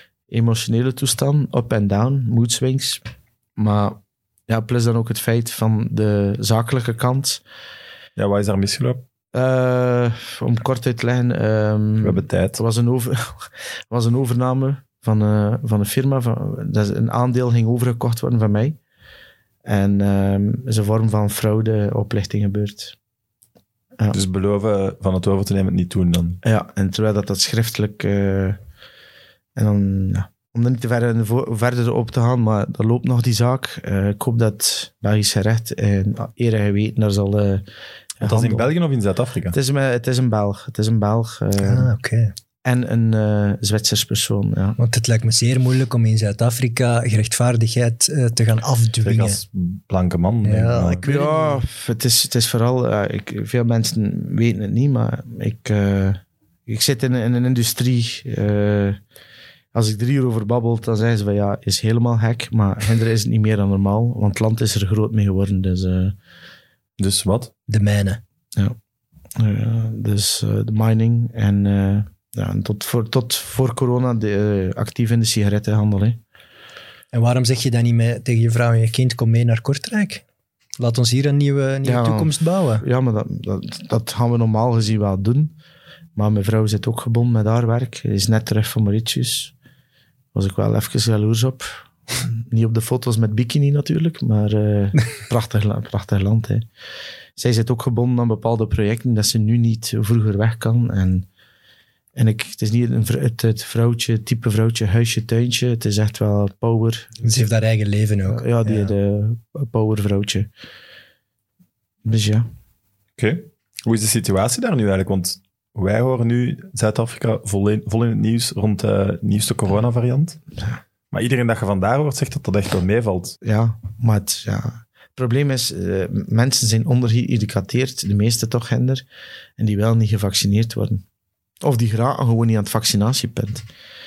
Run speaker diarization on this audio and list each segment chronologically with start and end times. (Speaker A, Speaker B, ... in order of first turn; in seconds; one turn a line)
Speaker A: 0.3-3.0
Speaker A: 3.5-7.4
Speaker B: 8.2-9.0
Speaker A: 9.3-18.8
Speaker B: 12.0-12.6
Speaker A: 19.6-22.9
Speaker B: 24.1-26.4
Speaker A: 26.4-28.6
Speaker A: 29.6-37.6
Speaker A: 38.2-38.7
Speaker B: 38.2-39.5
Speaker A: 39.5-41.9
Speaker C: 41.6-42.3
Speaker A: 42.6-44.8
Speaker C: 44.8-49.4
Speaker B: 49.0-51.0
Speaker C: 50.4-51.6
Speaker A: 51.0-59.0
Speaker A: 59.7-66.1
Speaker B: 67.0-67.5
Speaker C: 67.7-68.2
Speaker A: 69.3-76.2
Speaker C: 77.1-80.2
Speaker C: 80.8-82.8
Speaker A: 81.8-85.5
Speaker A: 86.2-89.5
Speaker A: 90.3-96.6
Speaker A: 97.4-101.2
Speaker A: 102.2-107.5
Speaker C: 107.2-108.9
Speaker A: 108.3-110.5
Speaker A: 112.0-112.5
Speaker B: 113.2-120.4
Speaker B: 121.1-123.4
Speaker A: 123.4-129.0
Speaker A: 129.6-131.0
Speaker A: 131.6-133.6